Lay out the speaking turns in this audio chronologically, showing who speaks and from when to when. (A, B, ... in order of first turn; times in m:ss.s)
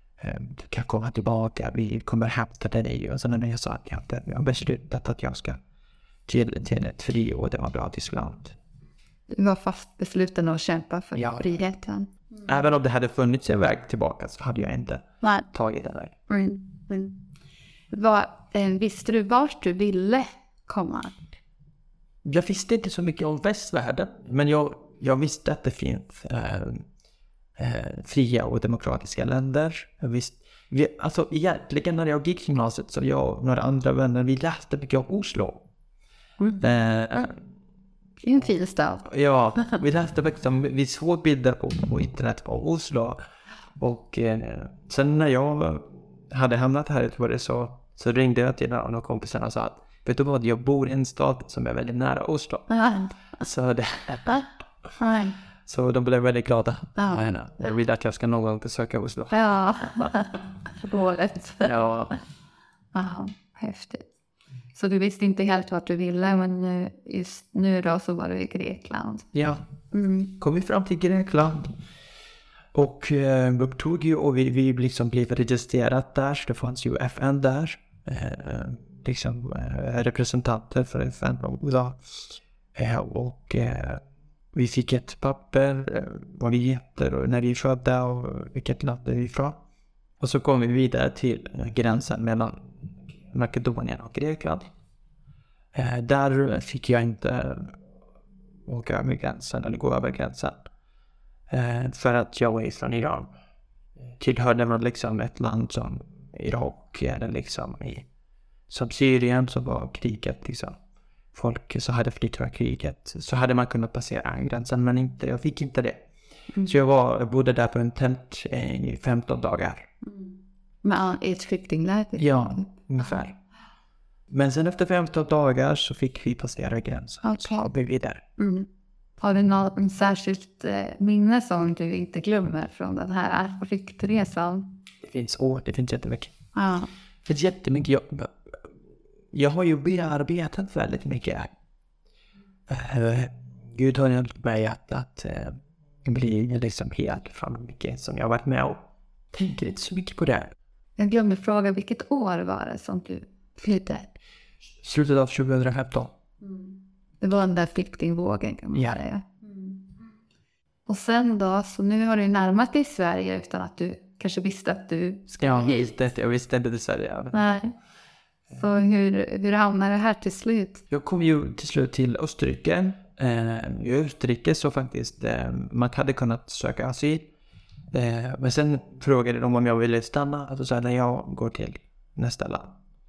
0:00.2-0:05.6 A
0:06.3-0:08.6 A
0:09.3-0:12.1 B
0:11.1-0:11.5 A
0:12.5-0:16.2 A
0:15.2-0:15.5 B
0:16.3-0:17.2 B
0:17.9-0:21.3 B
0:22.2-0:26.9 A
0:27.6-0:35.7 A
0:36.6-0:37.4 A
0:38.2-0:39.1 B
0:39.0-0:43.2 A
0:43.8-0:52.7 A
0:52.7-0:53.2 B
0:53.4-0:54.5 A
0:55.0-0:55.4 B
0:55.7-1:00.2 A
0:57.0-0:57.2 B
0:59.3-1:01.7 B
1:01.6-1:02.2 A
1:02.9-1:04.1 B
1:04.7-1:09.3 B
1:09.3-1:09.7 A
1:09.9-1:10.4 B
1:10.4-1:11.8 A
1:12.7-1:29.6 A
1:30.2-1:32.8 A
1:33.3-1:34.7 A
1:35.7-1:37.8 A
1:38.7-1:40.6 A
1:41.5-1:43.3 A
1:44.2-1:48.1 A
1:48.7-1:50.8 A
1:51.3-1:56.0 A
1:56.6-1:59.9 A
2:00.0-2:02.6 B
2:02.2-2:03.4 A
2:04.3-2:08.2 A
2:07.2-2:07.7 B
2:08.4-2:08.7 B
2:09.2-2:14.8 B
2:15.0-2:16.3 A
2:16.6-2:16.9 B
2:17.3-2:18.7 A
2:19.3-2:21.5 A
2:22.7-2:30.5 A
2:31.0-2:34.1 B
2:34.8-2:36.2 A
2:36.4-2:39.9 B
2:38.7-2:39.0 A
2:40.9-2:46.0 B
2:45.4-2:47.5 A
2:47.3-2:47.7 B
2:48.5-2:50.8 B
2:50.9-2:57.3 A
2:57.9-3:02.8 A